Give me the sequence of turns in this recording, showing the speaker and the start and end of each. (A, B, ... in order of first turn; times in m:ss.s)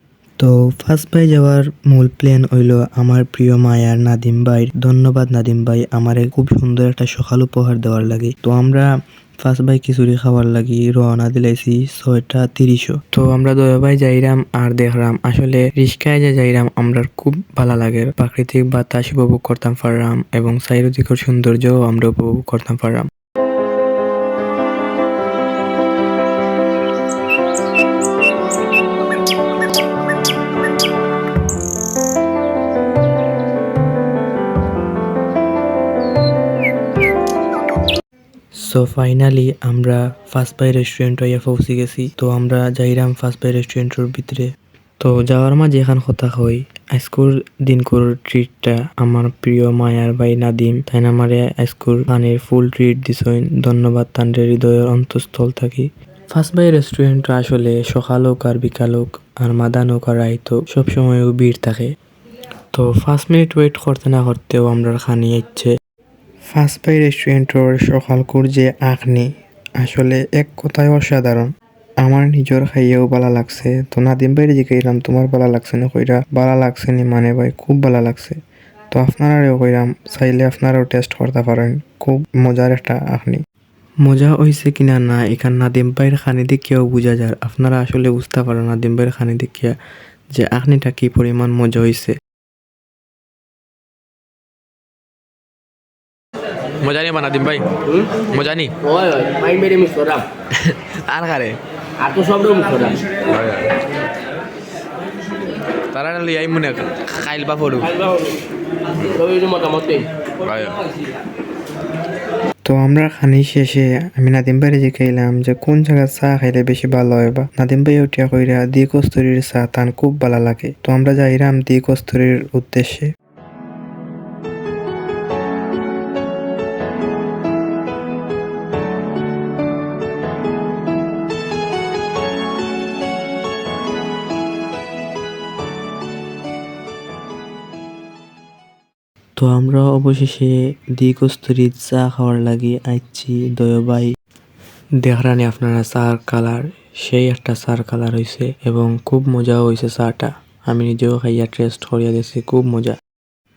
0:00.4-0:08.9 A
0:09.4-0:23.1 A
0:38.6-1:01.9 A
1:02.7-1:05.7 A
1:06.5-1:11.5 A
1:12.0-1:18.4 A
1:18.9-1:23.4 A
1:24.0-1:29.7 A
1:30.3-1:32.2 A
1:36.8-1:38.8 B
1:37.8-1:38.2 C
1:38.8-1:40.3 C
1:40.5-1:41.6 B
1:42.0-1:43.0 C
1:43.1-1:43.7 B
1:45.9-1:47.9 B
1:47.9-1:48.4 C
1:49.0-1:50.1 C
1:50.4-1:50.8 B
1:52.6-2:03.1 A
2:19.4-2:24.1 A
2:25.0-2:33.0 A